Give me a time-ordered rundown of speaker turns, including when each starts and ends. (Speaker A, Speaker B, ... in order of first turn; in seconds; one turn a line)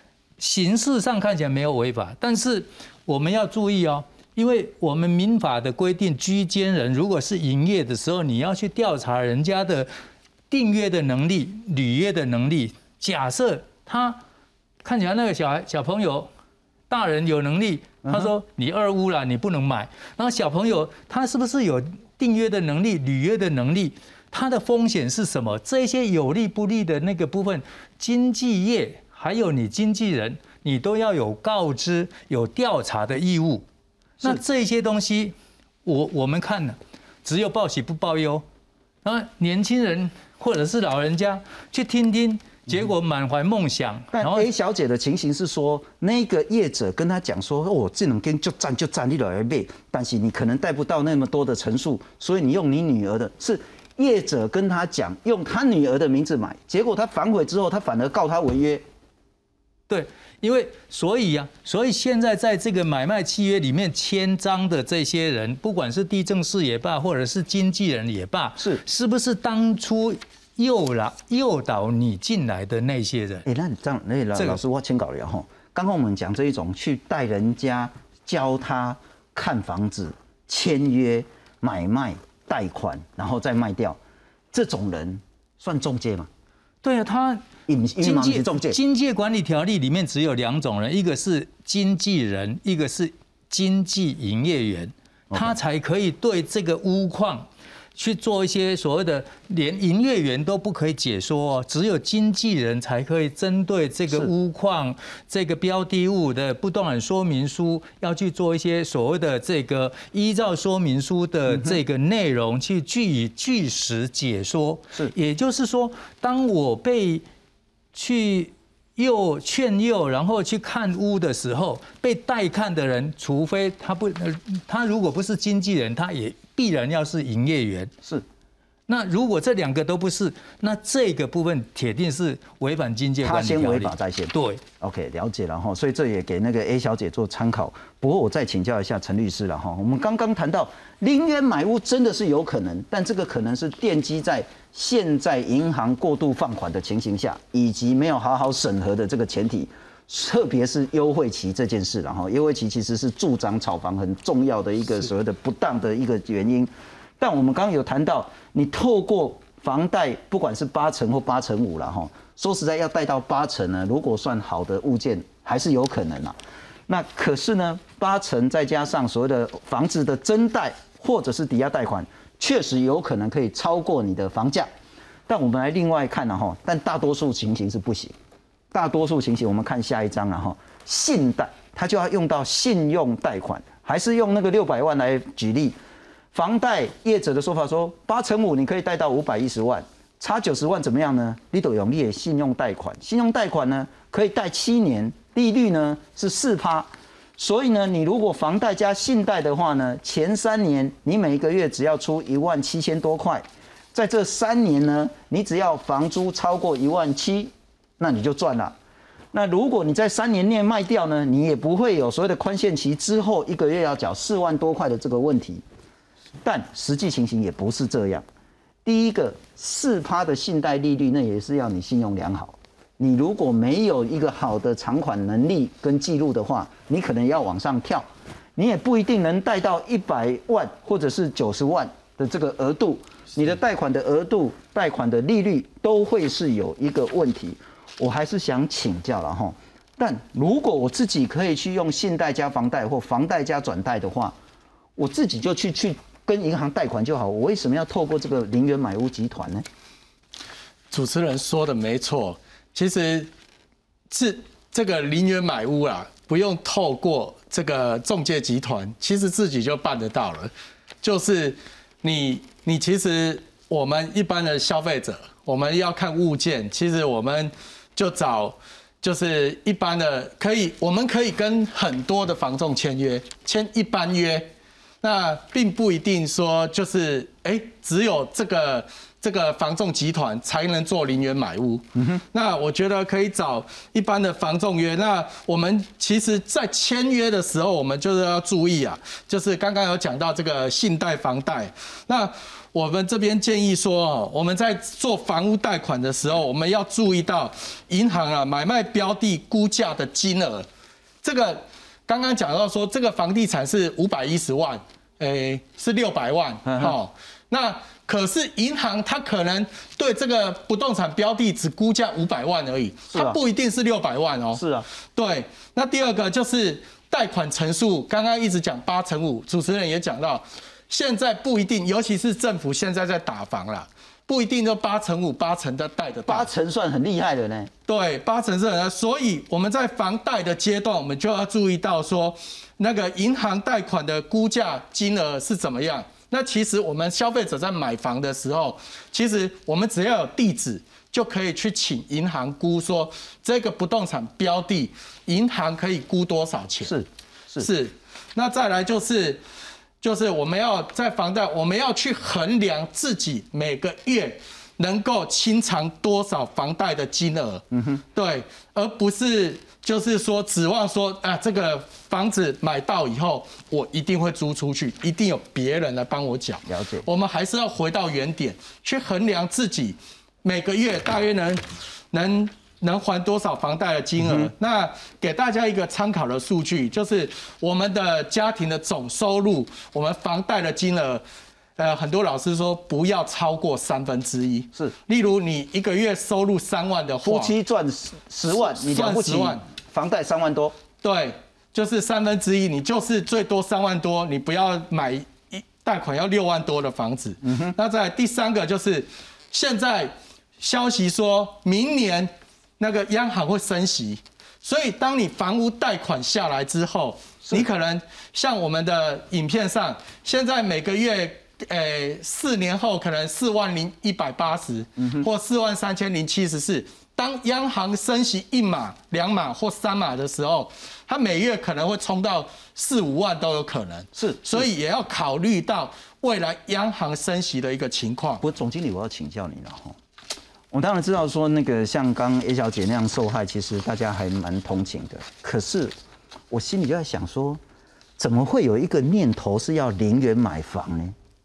Speaker A: 0.4-9.9
Speaker A: 10.5-14.2
Speaker A: 14.8-16.3
Speaker A: 16.9-33.7
Speaker B: 18.0-18.3
Speaker A: 34.2-38.5
Speaker A: 39.0-44.5
Speaker B: 44.1-58.8
Speaker A: 59.9-73.5
Speaker B: 73.5-84.0
Speaker A: 74.3-74.6
Speaker B: 84.5-86.3
Speaker A: 86.8-87.5
Speaker B: 87.7-88.8
Speaker A: 88.0-117.2
Speaker A: 117.9-127.9
Speaker A: 128.9-134.6
Speaker B: 133.2-166.4
Speaker B: 166.9-174.7
Speaker B: 175.3-178.1
Speaker B: 178.7-185.8
Speaker B: 186.3-208.8
Speaker B: 209.3-215.6
Speaker B: 216.4-218.3
Speaker B: 218.8-244.4
Speaker B: 245.0-249.7
Speaker C: 250.9-253.3
Speaker C: 254.1-274.5
Speaker C: 275.0-300.7
Speaker C: 301.2-314.6
Speaker B: 306.7-306.9
Speaker B: 313.1-313.4
Speaker B: 314.5-314.9
Speaker C: 315.2-326.5
Speaker B: 326.3-327.7
Speaker C: 327.9-346.9
Speaker B: 346.9-347.7
Speaker C: 347.6-349.4
Speaker C: 350.0-381.2
Speaker B: 357.7-358.0
Speaker B: 366.7-367.1
Speaker B: 374.2-374.5
Speaker C: 381.8-387.5
Speaker B: 387.2-390.8
Speaker C: 388.5-389.6
Speaker C: 391.0-428.4
Speaker B: 397.4-397.8
Speaker B: 415.0-415.3
Speaker B: 424.1-424.6
Speaker B: 428.4-430.0
Speaker B: 430.7-435.9
Speaker B: 436.5-437.6
Speaker B: 438.2-441.1